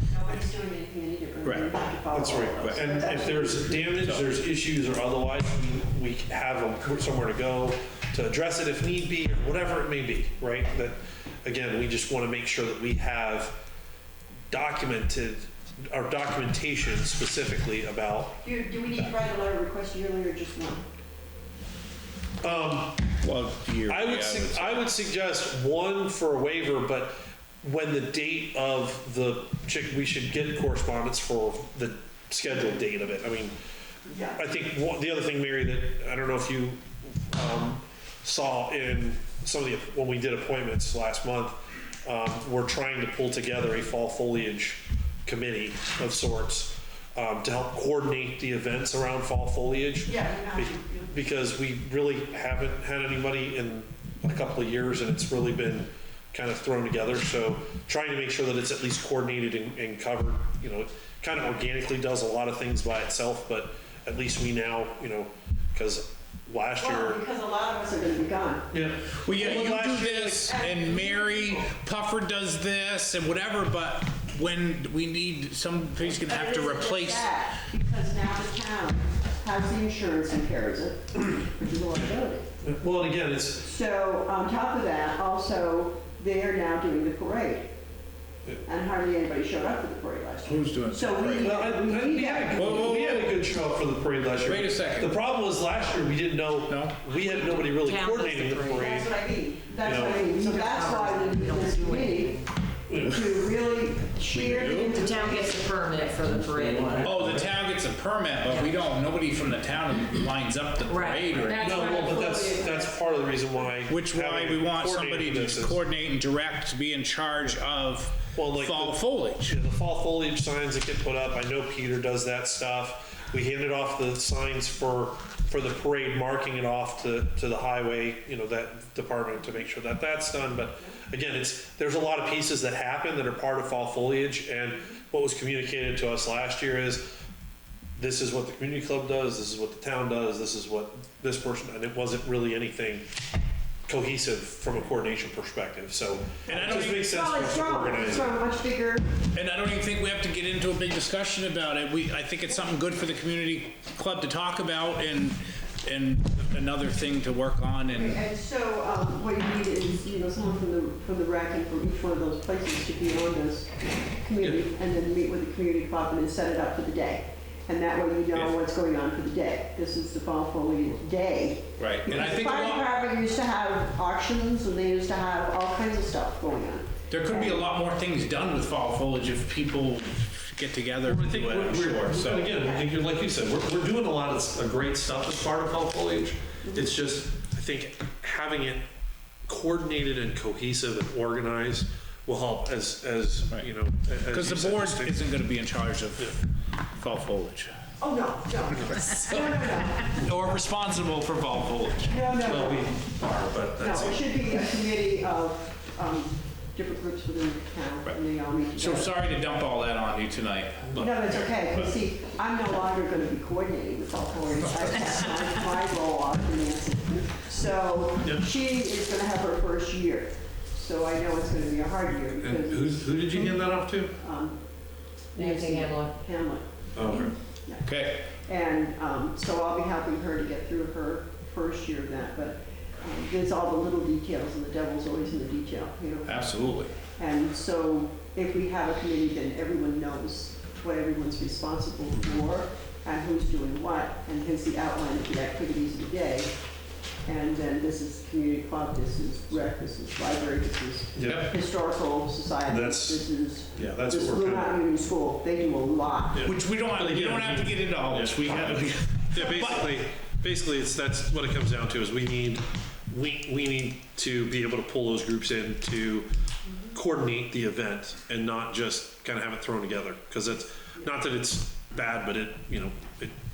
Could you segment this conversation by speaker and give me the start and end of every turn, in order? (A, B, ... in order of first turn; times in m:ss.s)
0:00.1-0:04.0 A
0:01.4-0:01.8 B
0:02.1-0:13.6 C
0:14.5-0:18.4 C
0:18.4-0:20.8 A
0:22.4-0:23.0 C
0:23.2-0:24.8 B
0:23.9-0:33.6 C
0:34.1-0:34.4 A
0:34.3-1:07.2 C
0:50.0-0:51.2 A
1:06.8-1:08.7 A
1:08.7-1:10.5 C
1:09.2-1:17.3 B
1:10.4-1:11.7 A
1:16.1-1:22.5 A
1:22.6-1:23.7 C
1:23.6-1:27.7 A
1:28.6-1:33.0 A
1:30.4-1:31.5 B
1:31.3-1:39.1 C
1:32.5-1:33.3 B
1:34.4-1:35.1 B
1:36.7-1:37.1 B
1:37.3-1:39.0 D
1:38.8-1:42.4 A
1:39.8-1:40.2 C
1:39.8-1:42.5 D
1:42.9-1:43.2 C
1:43.0-1:46.2 A
1:44.3-1:45.0 B
1:44.8-1:47.2 D
1:47.0-1:51.7 B
1:50.9-1:53.1 D
1:51.6-1:55.8 C
1:53.9-1:59.6 B
1:58.3-2:17.1 C
2:18.0-2:23.1 C
2:23.9-2:28.4 C
2:26.5-2:27.0 B
2:26.5-2:29.1 A
2:29.3-2:38.2 B
2:37.9-2:57.6 A
2:51.8-2:52.8 B
2:57.1-3:02.5 B
3:01.0-3:08.8 C
3:02.5-3:02.9 A
3:09.5-3:15.2 C
3:14.3-3:16.4 B
3:16.9-3:17.7 B
3:18.0-3:20.2 A
3:19.0-3:19.5 B
3:20.0-3:22.1 B
3:22.1-3:22.9 A
3:22.4-3:24.2 C
3:23.8-3:29.2 A
3:28.8-3:30.9 B
3:30.9-3:31.4 C
3:31.0-3:44.6 A
3:42.4-3:44.1 C
3:45.3-4:06.5 A
3:45.4-3:46.1 D
3:46.9-3:47.3 C
3:47.8-3:48.2 B
3:56.2-3:56.9 B
4:07.2-4:16.4 A
4:11.1-4:11.5 C
4:12.7-4:14.8 C
4:16.3-4:26.3 C
4:16.4-4:19.9 B
4:26.9-4:33.3 C